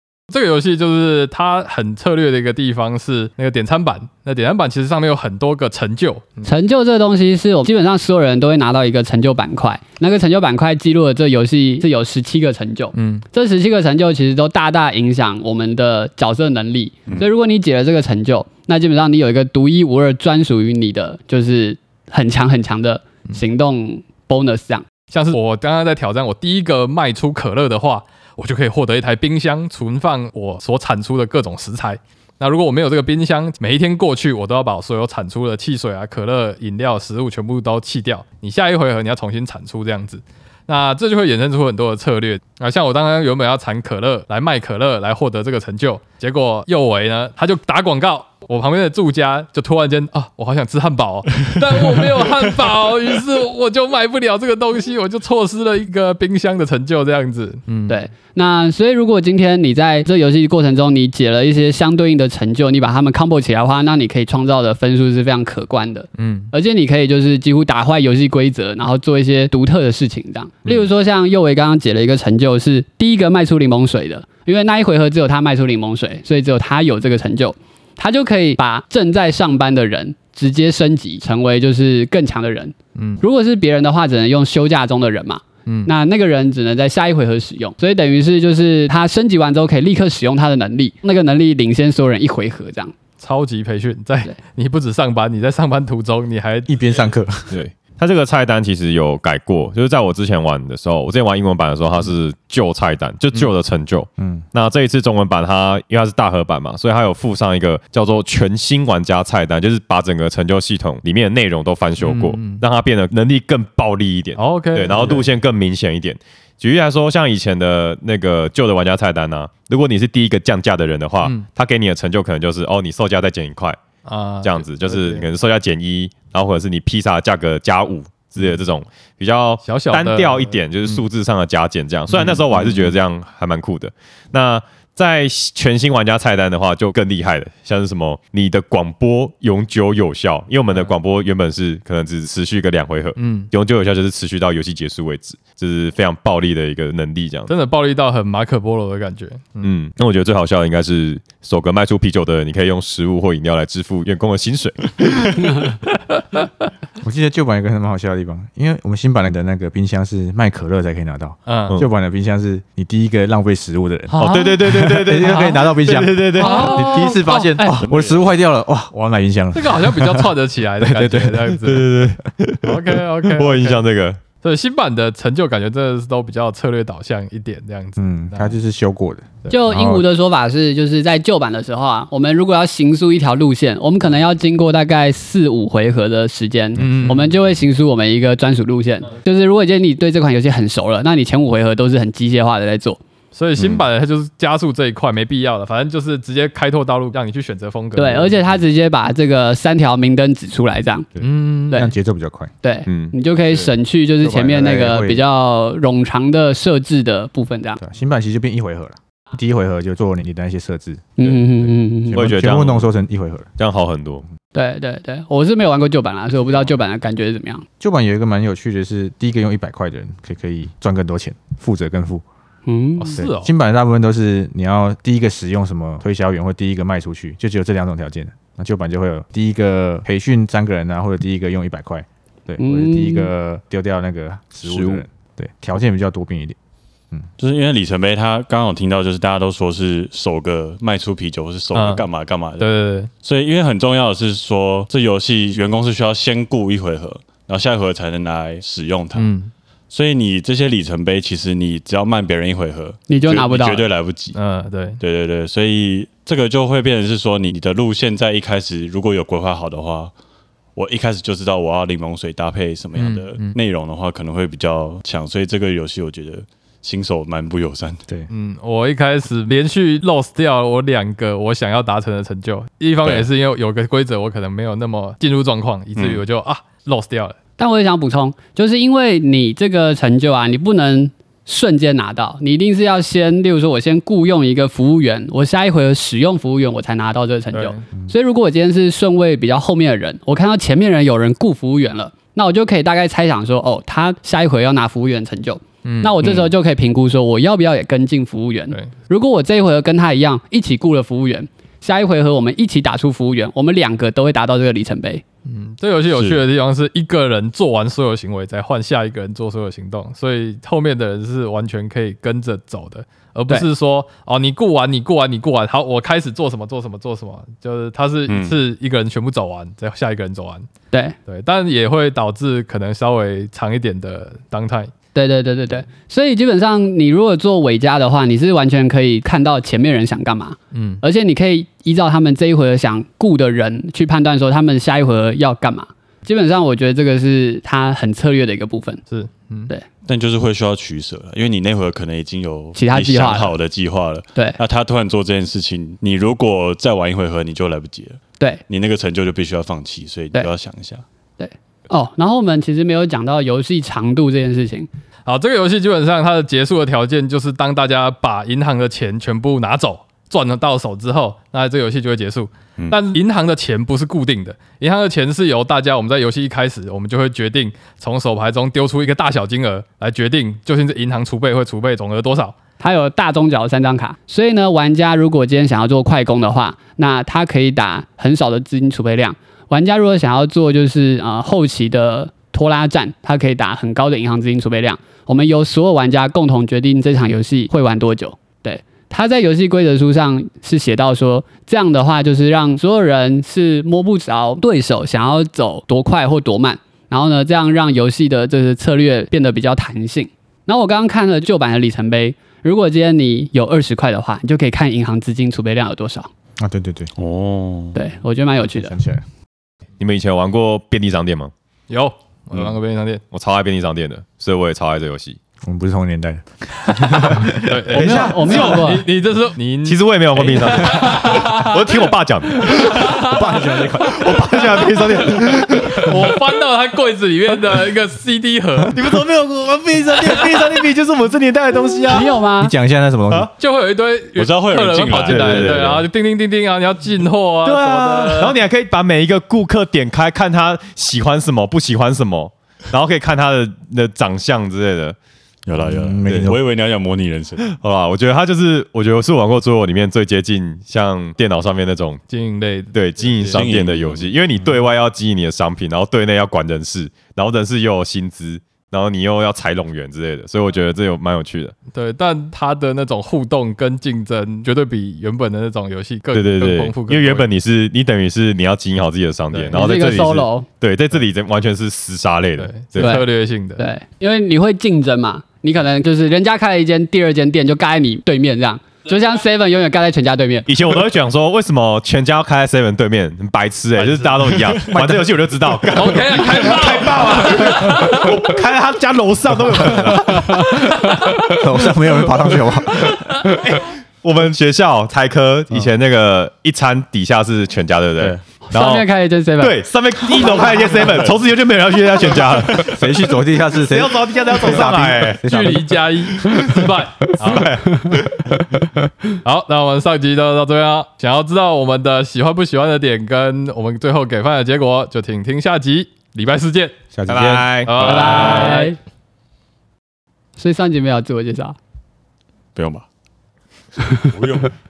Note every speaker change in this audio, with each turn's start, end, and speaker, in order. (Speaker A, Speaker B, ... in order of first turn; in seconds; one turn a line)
Speaker A: 0.3-6.5
Speaker B: 6.4-24.9
Speaker A: 12.9-13.2
Speaker A: 25.1-58.0
Speaker B: 57.9-92.9
Speaker A: 66.2-66.5
Speaker A: 83.0-83.2
Speaker A: 85.7-85.9
Speaker A: 93.2-96.7
Speaker C: 96.7-97.6
Speaker D: 97.5-123.8
Speaker C: 104.2-104.4
Speaker A: 112.0-112.6
Speaker A: 114.4-115.3
Speaker A: 124.0-125.2
Speaker D: 124.4-147.5
Speaker A: 129.6-131.0
Speaker A: 132.1-132.4
Speaker A: 143.2-143.5
Speaker A: 147.5-149.7
Speaker D: 149.6-155.7
Speaker C: 157.0-171.7
Speaker A: 161.4-161.8
Speaker A: 164.1-165.5
Speaker D: 164.2-166.9
Speaker A: 166.4-167.8
Speaker B: 166.6-167.1
Speaker E: 167.8-168.3
Speaker A: 169.5-171.9
Speaker D: 171.6-174.2
Speaker A: 172.6-173.8
Speaker A: 174.4-178.6
Speaker C: 178.0-180.0
Speaker B: 179.5-193.0
Speaker A: 186.8-187.3
Speaker C: 186.8-187.1
Speaker A: 193.3-198.3
Speaker B: 197.9-201.1
Speaker C: 201.2-202.5
Speaker A: 201.2-201.9
Speaker B: 202.6-207.8
Speaker D: 202.9-203.2
Speaker C: 204.2-205.2
Speaker C: 207.8-213.5
Speaker B: 211.2-212.2
Speaker D: 212.1-212.9
Speaker D: 213.6-214.2
Speaker B: 214.5-217.7
Speaker C: 217.8-222.2
Speaker B: 222.7-223.2
Speaker A: 223.0-223.5
Speaker C: 223.2-236.6
Speaker B: 232.6-233.3
Speaker D: 234.6-235.0
Speaker E: 237.4-242.7
Speaker A: 241.7-242.1
Speaker A: 242.6-243.1
Speaker E: 243.2-249.3
Speaker A: 249.1-249.5
Speaker E: 249.9-254.4
Speaker B: 253.1-253.8
Speaker A: 254.3-255.0
Speaker E: 255.0-260.1
Speaker E: 260.8-268.0
Speaker A: 262.9-263.5
Speaker A: 268.3-277.4
Speaker E: 275.9-276.2
Speaker B: 277.6-305.2
Speaker A: 287.5-287.8
Speaker A: 295.8-296.5
Speaker A: 305.4-320.6
Speaker E: 306.1-306.4
Speaker E: 318.3-318.6
Speaker A: 321.3-324.9
Speaker B: 325.1-339.0
Speaker A: 330.7-331.0
Speaker A: 339.1-339.7
Speaker E: 340.1-351.0
Speaker B: 342.8-343.6
Speaker B: 351.4-354.9
Speaker A: 355.2-372.6
Speaker B: 372.8-406.3
Speaker C: 406.6-407.1
Speaker E: 407.1-408.0
Speaker B: 407.9-408.9
Speaker C: 408.6-409.2
Speaker D: 410.0-411.5
Speaker A: 411.9-413.2
Speaker D: 413.3-415.4
Speaker C: 415.6-417.8
Speaker A: 417.5-422.1
Speaker D: 417.9-418.9
Speaker B: 417.9-419.0
Speaker D: 419.8-423.4
Speaker A: 422.6-429.1
Speaker C: 422.7-424.9
Speaker D: 424.0-426.3
Speaker D: 428.9-432.4
Speaker A: 430.2-430.7
Speaker B: 432.1-432.7
Speaker C: 432.6-433.5
Speaker A: 433.6-438.6
Speaker E: 434.4-436.1
Speaker D: 435.3-435.9
Speaker D: 437.6-445.1
Speaker E: 445.6-447.7
Speaker C: 445.8-446.6
Speaker D: 447.6-452.2
Speaker A: 452.3-453.6
Speaker D: 452.9-461.7
Speaker E: 453.5-454.3
Speaker A: 461.9-467.5
Speaker D: 466.3-473.2
Speaker A: 469.5-469.8
Speaker B: 469.7-470.7
Speaker A: 472.6-473.8
Speaker B: 472.9-480.7
Speaker D: 480.6-491.9
Speaker A: 483.9-485.1
Speaker A: 485.9-488.3
Speaker C: 491.4-493.3
Speaker D: 493.1-499.1
Speaker B: 498.7-499.8
Speaker D: 499.6-503.1
Speaker E: 500.9-501.3
Speaker C: 502.9-506.0
Speaker D: 503.8-505.4
Speaker A: 505.4-507.8
Speaker D: 507.4-508.5
Speaker A: 509.4-517.0
Speaker C: 517.1-517.7
Speaker D: 517.3-518.8
Speaker A: 517.9-518.9
Speaker B: 518.0-519.0
Speaker B: 520.6-521.8
Speaker E: 522.7-523.0
Speaker E: 524.1-524.7